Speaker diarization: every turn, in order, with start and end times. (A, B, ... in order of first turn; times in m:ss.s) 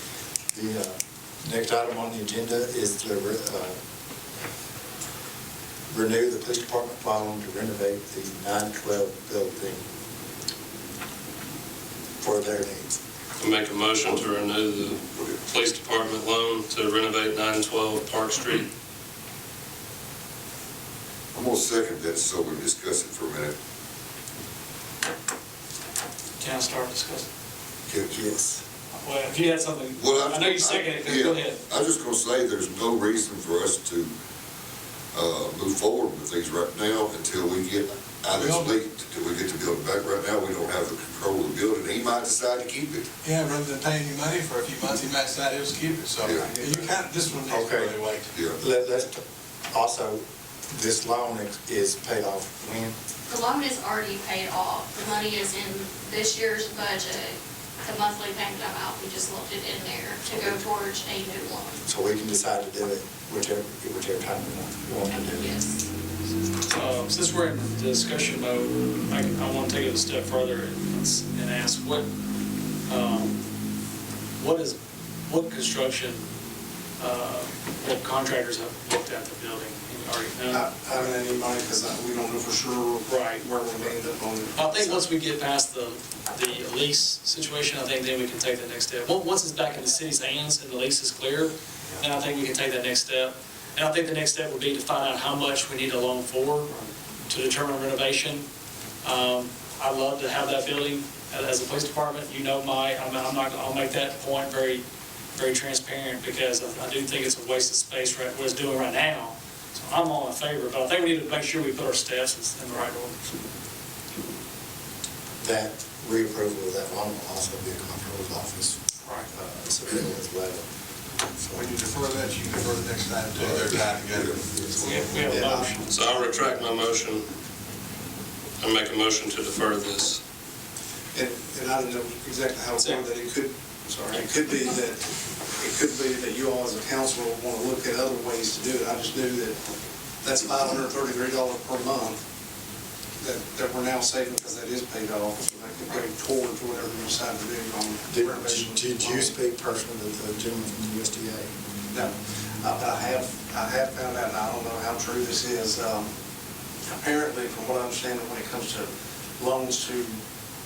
0:00.5-0:03.8 A
0:05.9-0:09.8 A
0:12.2-0:13.0 A
0:13.4-0:18.7 B
0:21.3-0:23.5 C
0:26.4-0:27.3 D
0:27.9-0:28.3 C
0:28.1-0:28.6 A
0:28.9-0:31.6 D
0:29.9-0:34.1 C
0:35.1-0:43.0 C
0:38.3-0:38.8 E
0:43.2-0:48.3 E
0:46.2-0:46.5 C
0:46.4-0:47.0 F
0:47.5-0:48.0 A
0:48.3-0:48.6 C
0:48.5-0:53.0 A
0:53.3-1:01.8 G
1:01.8-1:05.5 A
1:05.1-1:05.8 G
1:06.6-1:12.1 D
1:12.9-1:13.4 D
1:14.4-1:16.2 D
1:17.0-1:20.7 D
1:20.5-1:25.0 F
1:23.1-1:23.5 D
1:24.6-1:36.7 D
1:37.3-1:38.5 D
1:39.0-1:44.8 D
1:45.3-1:53.2 D
1:55.4-2:00.7 A
2:01.2-2:01.7 A
2:01.5-2:04.7 E
2:03.5-2:04.4 C
2:04.8-2:06.1 D
2:05.2-2:05.7 A
2:05.2-2:05.7 F
2:05.9-2:07.2 B
2:08.6-2:10.2 B
2:11.1-2:19.6 F
2:12.8-2:13.0 D
2:20.2-2:22.2 F
2:23.2-2:29.3 F
2:28.1-2:31.5 A
2:31.9-2:36.1 F
2:36.8-2:40.2 F